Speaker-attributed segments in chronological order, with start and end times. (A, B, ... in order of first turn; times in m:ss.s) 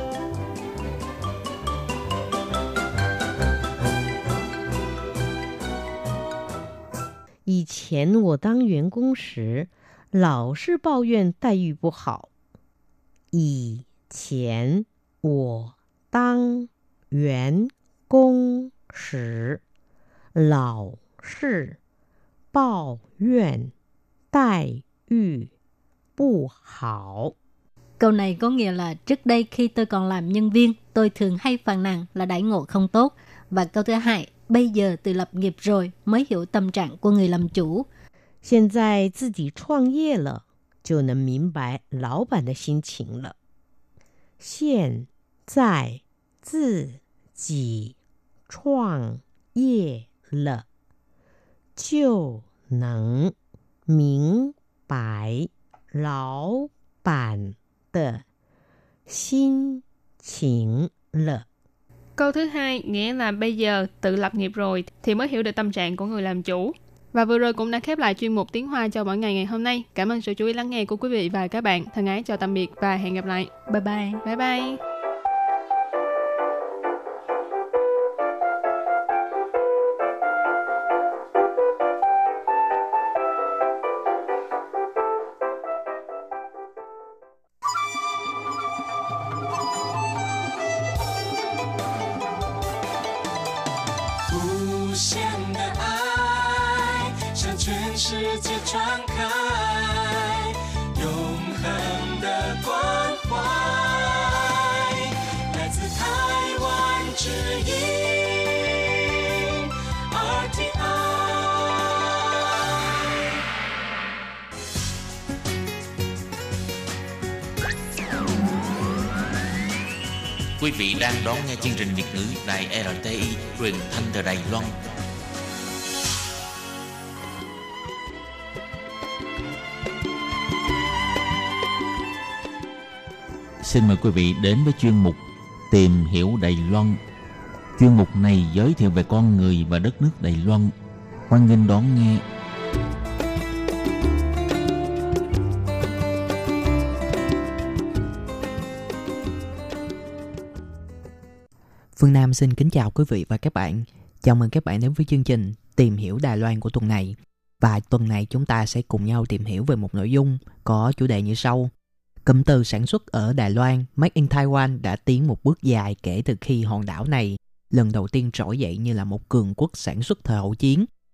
0:07.5-0:12.3 A
0:13.3-0:19.6 A
0:20.4-0:21.8 A
0:22.5-0:23.7 A
0:24.3-0:25.5 A
0:26.2-0:27.3 A
0:28.0-0:37.9 B
0:38.4-0:43.4 A
0:44.4-0:47.9 A
0:48.5-0:50.6 A
0:51.8-0:53.3 A
0:53.9-0:58.2 A
0:59.1-1:01.4 A
1:02.2-1:13.5 C
1:13.7-1:14.2 B
1:14.2-1:14.8 C
1:34.3-1:49.4 D
1:50.1-1:52.1 D
2:00.6-2:04.8 E
2:13.6-2:17.0 E
2:17.8-2:20.7 E
2:21.3-2:22.2 E
2:32.0-2:41.7 F
2:42.2-2:50.9 F